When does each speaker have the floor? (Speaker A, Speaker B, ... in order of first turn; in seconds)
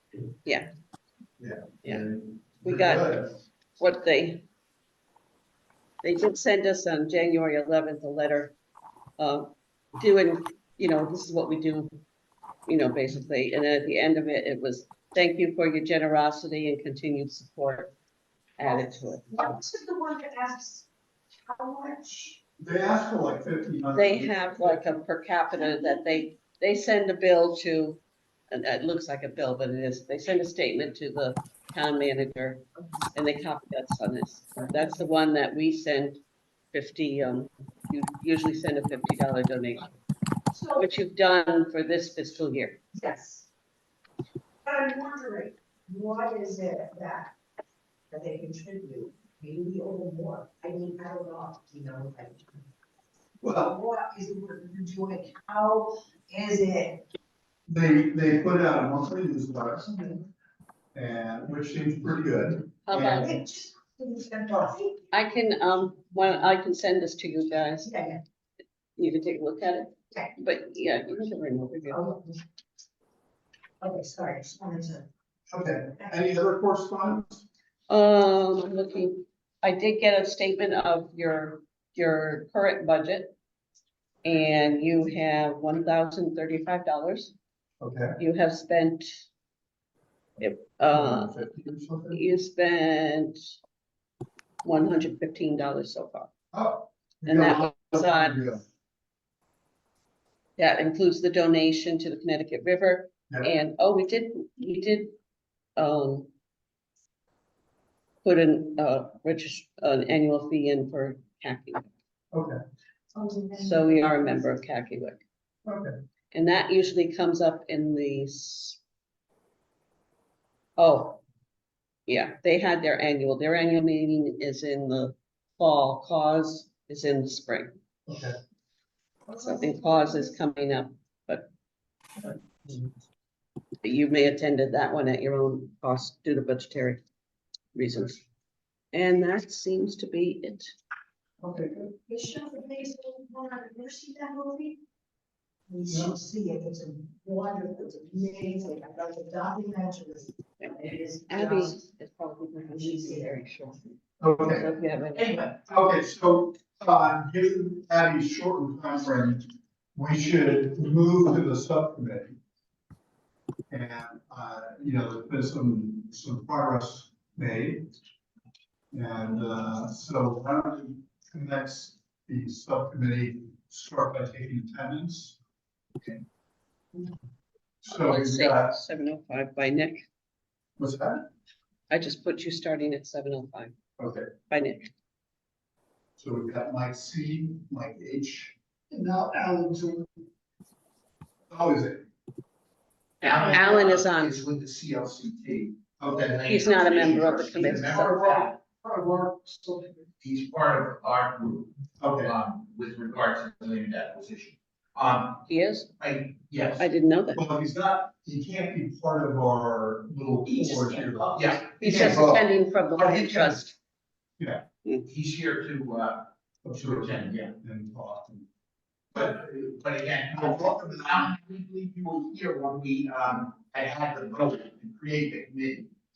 Speaker A: 1.4-3.3, 22.6-24.8, 53.4-53.7, 57.7-60.0, 60.9-63.3, 75.5-77.5, 87.8-88.2, 90.9-92.2, 96.5-98.7, 112.3-112.6, 115.7-115.9, 128.1-128.3, 141.4-141.8, 145.9-146.2, 154.2-154.7, 155.5-162.4, 163.7-167.9, 168.9-175.4, 177.8-178.8, 180.8-181.2, 184.0-184.3, 186.2-190.1, 191.5-192.0, 196.0-196.4, 197.5-199.9, 202.0-202.3, 207.3-212.4, 214.4-214.6, 216.6-218.4, 219.1-219.4, 220.3-221.3
Speaker B: 2.6-3.2, 3.8-4.4, 6.0-8.5, 9.2-11.9, 12.7-17.9, 18.6-19.4, 23.9-32.6, 33.1-36.2, 36.7-39.9, 40.8-42.8, 62.9-63.4, 65.1-67.9, 69.0-72.0, 77.9-83.3, 84.2-87.3, 88.2-89.1, 90.4-91.4, 92.1-93.4, 94.6-96.3, 97.2-98.4, 100.6-105.1, 105.8-106.3, 108.2-111.9, 113.6-115.2, 116.3-118.8, 120.8-121.2, 122.1-127.7, 129.3-131.5, 132.2-132.9, 133.8-137.0, 137.7-138.2, 138.9-140.7, 150.6-155.4, 177.9-180.0, 181.9-183.7, 184.5-184.9, 193.2-194.3, 196.4-198.1, 205.5-205.9, 206.8-207.4, 211.8-213.7
Speaker C: 18.6-20.9, 21.5-22.4, 25.6-26.0, 40.5-40.9, 42.9-43.5, 44.6-47.3, 48.1-52.6, 53.5-57.0, 63.0-65.0, 67.8-68.2, 71.9-72.4, 73.8-75.0, 113.1-114.5, 141.8-144.8, 145.7-151.8, 152.7-153.4
Speaker D: 193.2-198.5, 200.2-205.4, 206.0-206.9, 210.5-212.4, 213.0-213.6, 215.1-217.5, 219.1-225.9